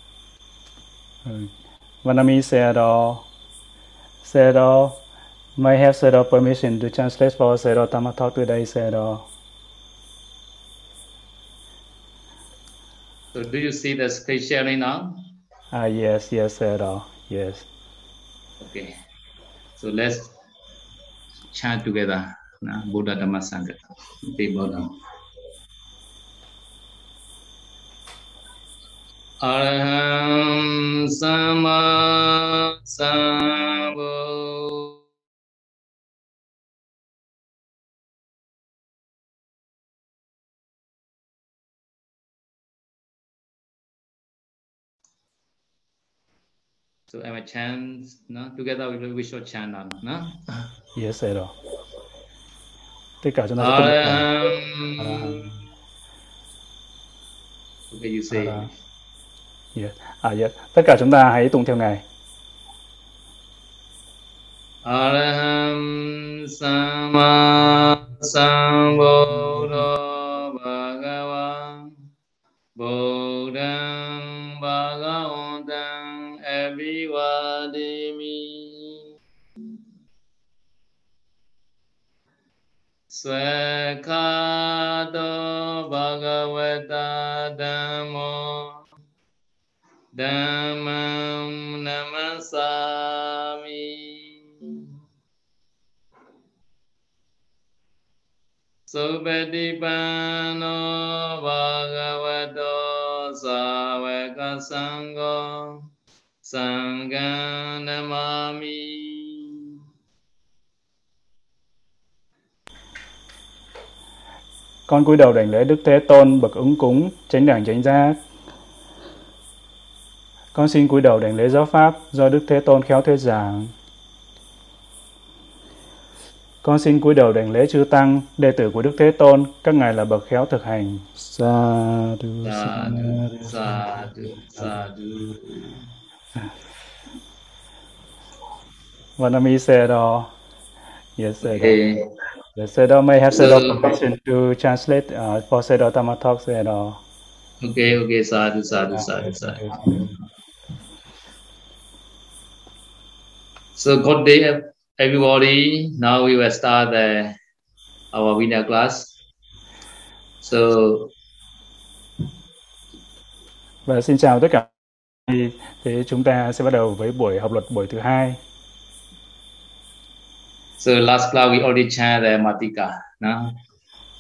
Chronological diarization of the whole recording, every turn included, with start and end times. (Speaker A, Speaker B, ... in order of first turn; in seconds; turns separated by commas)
Speaker A: 1.2-1.5, Speaker A: 2.0-3.2, Speaker A: 4.2-5.0, Speaker A: 5.6-9.2, Speaker B: 13.3-15.3, Speaker A: 15.7-17.7, Speaker B: 18.6-18.9, Speaker B: 19.8-20.3, Speaker B: 21.5-24.9, Speaker B: 29.4-34.9, Speaker B: 47.1-50.6, Speaker A: 51.0-51.5, Speaker A: 53.2-54.5, Speaker B: 53.6-55.6, Speaker A: 55.0-55.5, Speaker B: 57.9-58.7, Speaker A: 58.3-58.7, Speaker A: 59.8-62.0, Speaker B: 64.8-71.9, Speaker B: 72.8-79.0, Speaker B: 83.1-88.8, Speaker B: 90.2-94.9, Speaker B: 98.9-105.8, Speaker B: 106.4-109.6, Speaker A: 114.9-118.2, Speaker A: 120.5-123.7, Speaker A: 126.6-133.8, Speaker B: 132.4-135.8, Speaker A: 139.2-140.3, Speaker A: 141.2-141.8, Speaker B: 141.4-142.1, Speaker A: 142.6-147.0, Speaker B: 143.3-143.8, Speaker B: 147.6-150.1, Speaker B: 153.8-157.3, Speaker B: 158.1-159.2, Speaker B: 160.4-161.1, Speaker A: 163.9-164.7, Speaker A: 165.3-168.4, Speaker B: 170.8-173.6